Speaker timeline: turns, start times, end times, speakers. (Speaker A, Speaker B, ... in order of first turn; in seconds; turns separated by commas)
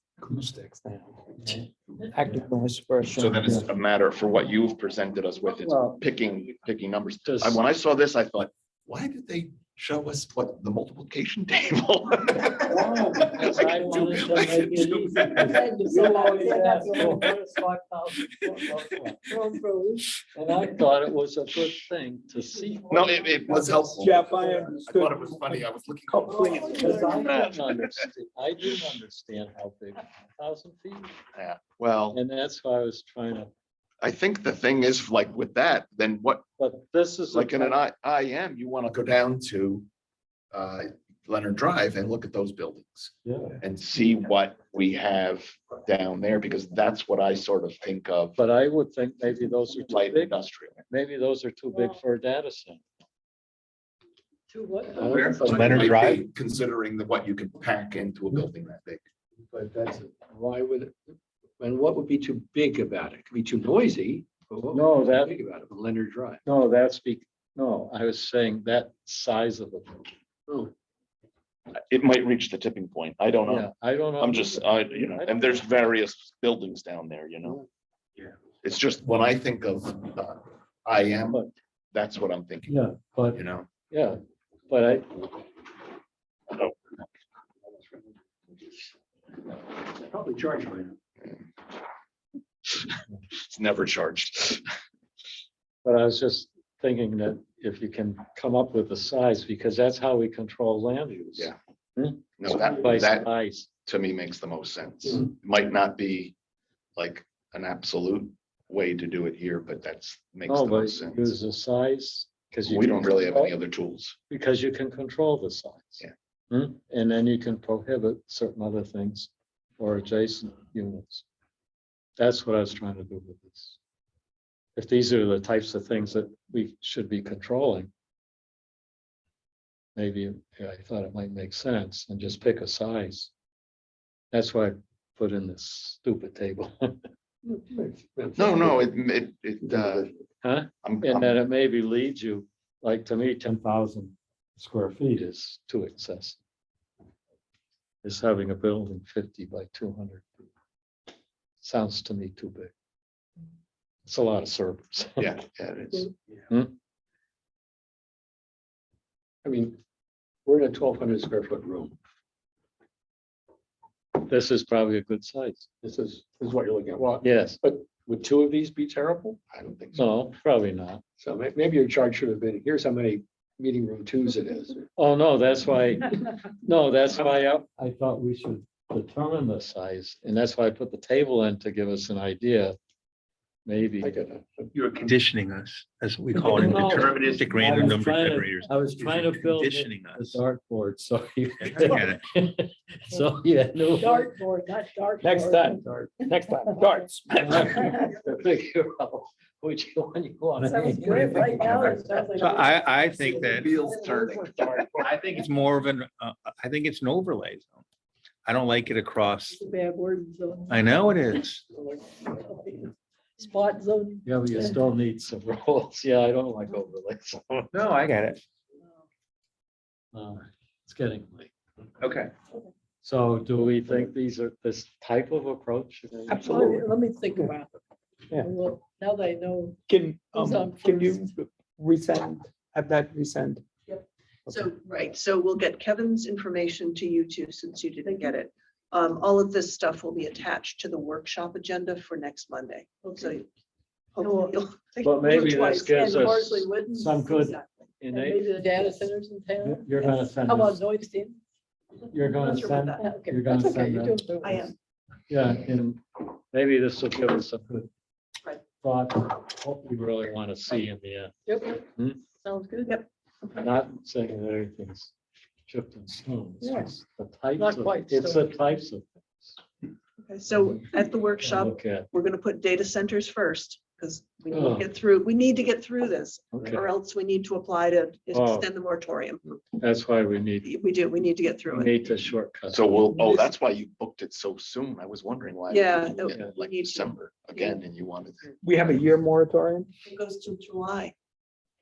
Speaker A: 0.5-1.2, Speaker A: 2.1-3.5, Speaker B: 3.1-15.8, Speaker C: 5.7-6.0, Speaker C: 7.2-7.6, Speaker C: 12.7-19.2, Speaker D: 15.3-17.3, Speaker D: 19.2-20.1, Speaker C: 20.3-23.9, Speaker B: 22.9-27.7, Speaker D: 23.5-24.0, Speaker A: 24.0-25.1, Speaker A: 26.1-26.6, Speaker D: 26.5-27.3, Speaker C: 26.7-31.1, Speaker B: 31.3-32.2, Speaker C: 32.1-33.5, Speaker B: 34.0-36.4, Speaker C: 36.6-37.8, Speaker B: 37.3-39.9, Speaker B: 40.5-48.4, Speaker C: 43.2-43.6, Speaker C: 48.4-50.4, Speaker B: 49.8-50.8, Speaker C: 50.9-52.8, Speaker D: 51.7-52.0, Speaker D: 54.5-55.6, Speaker E: 54.8-55.8, Speaker F: 55.0-56.2, Speaker B: 55.5-59.0, Speaker E: 59.4-66.4, Speaker C: 64.7-65.3, Speaker C: 66.4-70.1, Speaker B: 71.9-77.6, Speaker C: 73.5-75.7, Speaker B: 78.6-81.4, Speaker B: 81.9-82.8, Speaker C: 82.7-85.4, Speaker B: 83.3-83.7, Speaker B: 86.5-86.8, Speaker E: 87.7-88.1, Speaker E: 89.8-91.0, Speaker B: 93.5-94.6, Speaker C: 95.8-103.7, Speaker B: 102.4-103.3, Speaker B: 103.9-106.3, Speaker B: 107.0-111.3, Speaker C: 110.4-113.5, Speaker B: 112.7-114.2, Speaker C: 114.3-121.2, Speaker C: 122.2-123.8, Speaker C: 124.8-127.9, Speaker C: 130.0-133.3, Speaker C: 134.3-137.0, Speaker E: 137.4-138.8, Speaker B: 138.3-140.1, Speaker E: 139.7-140.2, Speaker C: 140.4-146.4, Speaker B: 140.8-141.4, Speaker C: 148.0-150.5, Speaker C: 151.6-152.7, Speaker C: 154.1-155.2, Speaker B: 155.2-156.1, Speaker E: 159.4-159.8, Speaker E: 160.4-162.0, Speaker C: 164.2-165.7, Speaker E: 165.8-169.5, Speaker C: 167.2-167.6, Speaker B: 169.5-170.0, Speaker C: 169.9-171.0, Speaker E: 171.2-174.9, Speaker C: 175.0-182.8, Speaker C: 183.7-184.2, Speaker E: 184.0-184.7, Speaker F: 184.7-190.4, Speaker C: 186.3-194.3, Speaker F: 191.6-192.2, Speaker D: 194.0-195.8, Speaker G: 195.2-197.8, Speaker A: 196.6-197.0, Speaker D: 196.7-196.9, Speaker C: 197.4-202.3, Speaker D: 197.7-198.1, Speaker D: 200.6-204.7, Speaker E: 200.7-202.2, Speaker F: 202.3-203.8, Speaker B: 203.2-205.0, Speaker F: 204.8-207.8, Speaker F: 208.5-209.6, Speaker D: 209.5-211.0, Speaker F: 210.7-211.7, Speaker D: 211.7-214.8, Speaker C: 214.2-217.7, Speaker F: 217.7-218.4, Speaker C: 220.1-221.5, Speaker F: 222.0-222.3, Speaker C: 223.0-226.8, Speaker A: 226.3-226.8, Speaker D: 226.5-227.8, Speaker D: 228.4-229.8, Speaker A: 229.9-233.6, Speaker D: 230.3-231.2, Speaker H: 233.9-243.5, Speaker D: 238.1-238.3, Speaker D: 243.0-243.3, Speaker H: 244.2-247.9, Speaker D: 244.2-244.6, Speaker C: 245.0-249.0, Speaker D: 245.3-245.6, Speaker D: 248.1-251.4, Speaker C: 249.6-250.8, Speaker C: 252.1-254.2, Speaker H: 252.2-253.1, Speaker D: 253.0-254.7, Speaker H: 254.4-254.7, Speaker C: 255.3-257.9, Speaker C: 258.8-261.3, Speaker D: 261.5-261.8, Speaker C: 261.9-262.2, Speaker D: 262.4-262.9, Speaker C: 263.5-265.1, Speaker C: 265.7-269.6, Speaker D: 266.6-266.9, Speaker D: 267.6-268.5, Speaker H: 270.2-279.6, Speaker C: 271.4-272.1, Speaker C: 274.5-274.9, Speaker C: 276.5-276.9, Speaker C: 278.3-278.7, Speaker C: 279.8-280.7, Speaker H: 280.6-281.9, Speaker C: 281.7-283.1, Speaker B: 282.7-288.5, Speaker H: 285.7-287.8, Speaker A: 288.6-289.9, Speaker H: 290.0-291.1